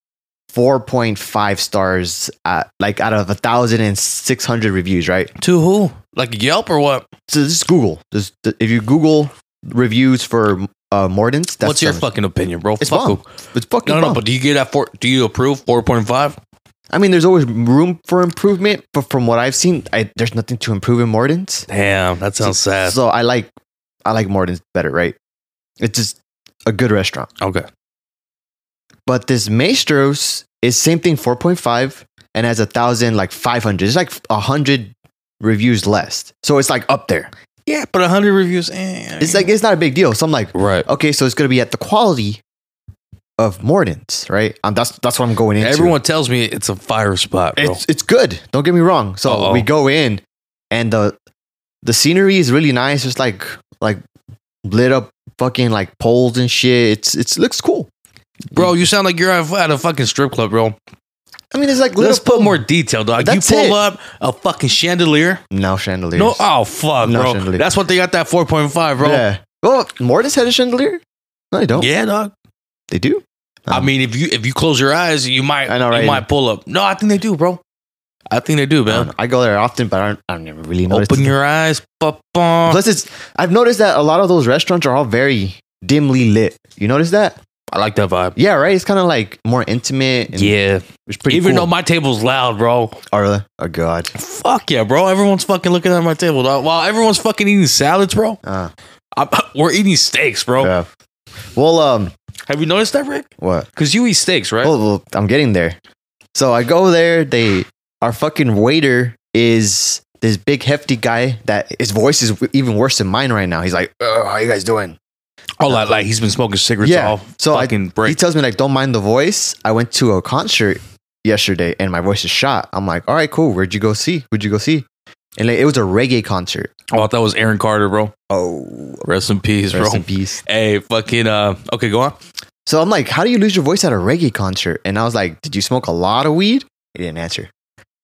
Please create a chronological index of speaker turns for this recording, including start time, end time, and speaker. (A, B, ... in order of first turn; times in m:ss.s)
0:00.5-0:05.3 A
0:05.4-0:07.0 B
0:07.3-0:12.0 A
0:11.6-0:13.3 B
0:12.8-0:14.2 A
0:13.8-0:16.4 B
0:16.9-0:21.7 A
0:21.7-0:23.0 B
0:22.4-0:23.5 A
0:24.0-0:25.2 A
0:25.8-0:27.3 A
0:27.4-0:27.7 B
0:29.1-0:37.3 A
0:37.7-0:39.5 B
0:39.2-0:42.4 A
0:40.5-0:40.9 B
0:43.4-0:46.0 A
0:45.6-0:47.8 B
0:47.6-0:51.2 A
0:49.3-0:49.7 B
0:51.8-0:54.0 A
0:54.6-0:57.9 A
0:58.5-1:00.8 B
1:01.5-1:02.6 A
1:02.0-1:05.4 B
1:03.2-1:03.8 A
1:05.5-1:06.4 A
1:06.2-1:09.2 B
1:07.0-1:07.6 A
1:09.0-1:11.0 A
1:11.5-1:11.9 A
1:11.8-1:12.3 B
1:12.9-1:13.9 A
1:13.7-1:17.6 B
1:15.7-1:16.2 A
1:18.3-1:19.1 B
1:18.9-1:21.3 A
1:20.9-1:22.8 B
1:22.7-1:27.4 A
1:27.7-1:28.4 B
1:28.4-1:30.5 A
1:30.3-1:33.0 B
1:31.1-1:31.7 A
1:33.1-1:34.1 A
1:34.1-1:38.4 B
1:38.4-1:38.7 A
1:39.2-1:40.7 B
1:40.6-1:40.9 A
1:41.6-1:42.1 A
1:42.5-1:44.7 B
1:43.4-1:43.7 A
1:44.6-1:45.8 A
1:46.4-1:55.0 A
1:55.6-1:58.2 B
1:55.7-1:56.0 A
1:56.8-2:04.9 A
2:05.4-2:06.7 A
2:06.9-2:08.1 B
2:08.3-2:09.1 A
2:09.0-2:12.2 B
2:09.7-2:10.4 A
2:12.7-2:17.5 A